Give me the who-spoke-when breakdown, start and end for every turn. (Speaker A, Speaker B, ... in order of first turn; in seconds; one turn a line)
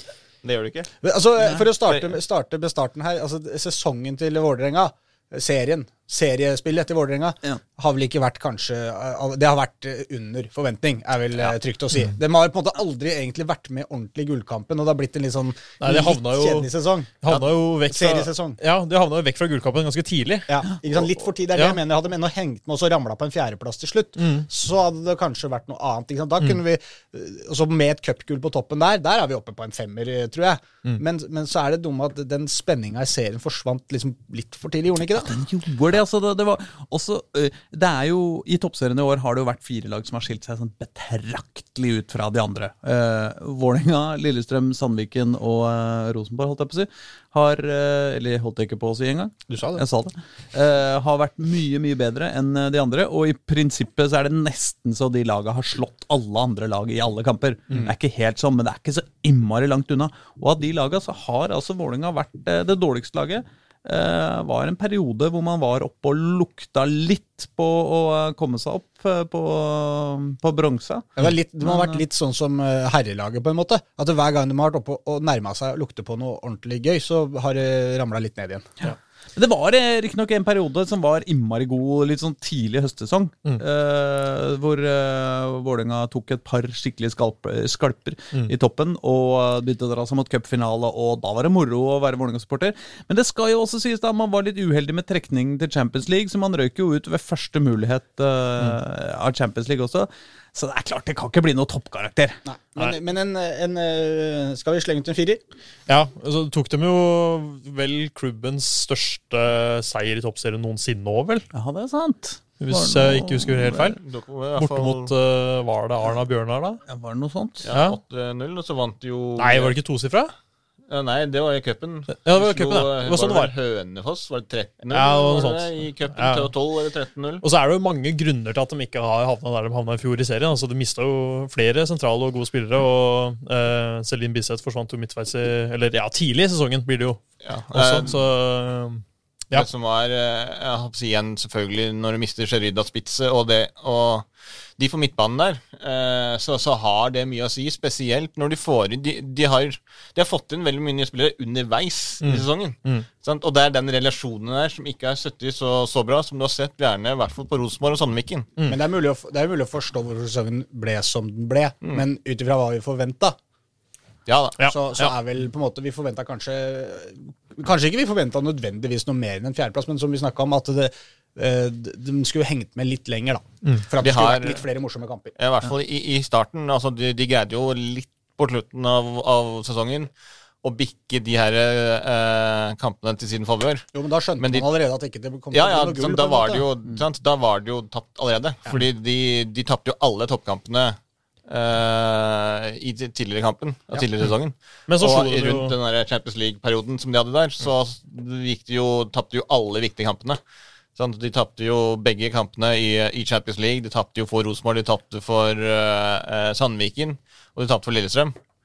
Speaker A: 0.4-0.9
Speaker B: 1.0-17.1
Speaker C: 15.8-16.7
Speaker C: 17.2-20.6
Speaker B: 17.9-18.6
Speaker B: 20.5-35.4
Speaker C: 21.5-21.8
Speaker C: 24.2-24.5
Speaker D: 35.2-71.1
Speaker B: 49.5-49.8
Speaker B: 71.2-78.7
Speaker D: 71.7-72.0
Speaker D: 78.9-102.4
Speaker B: 102.5-105.4
Speaker C: 105.9-111.5
Speaker D: 111.5-113.9
Speaker C: 112.6-114.0
Speaker A: 114.0-115.1
Speaker C: 114.6-116.8
Speaker D: 116.9-117.7
Speaker A: 117.6-119.8
Speaker C: 117.7-118.0
Speaker C: 119.4-120.3
Speaker A: 120.9-127.4
Speaker C: 122.2-123.5
Speaker C: 124.9-126.5
Speaker C: 127.4-137.2
Speaker A: 137.4-138.2
Speaker C: 137.7-139.7
Speaker A: 139.5-144.3
Speaker A: 144.8-158.5
Speaker C: 152.2-153.1
Speaker B: 158.7-163.4
Speaker A: 164.3-164.6
Speaker C: 164.6-165.1
Speaker B: 164.7-175.3
Speaker A: 174.0-174.6
Speaker A: 175.4-180.1
Speaker A: 180.6-183.9
Speaker B: 183.9-186.7
Speaker A: 184.4-184.7
Speaker A: 185.5-200.4
Speaker C: 194.9-195.8
Speaker A: 201.0-208.3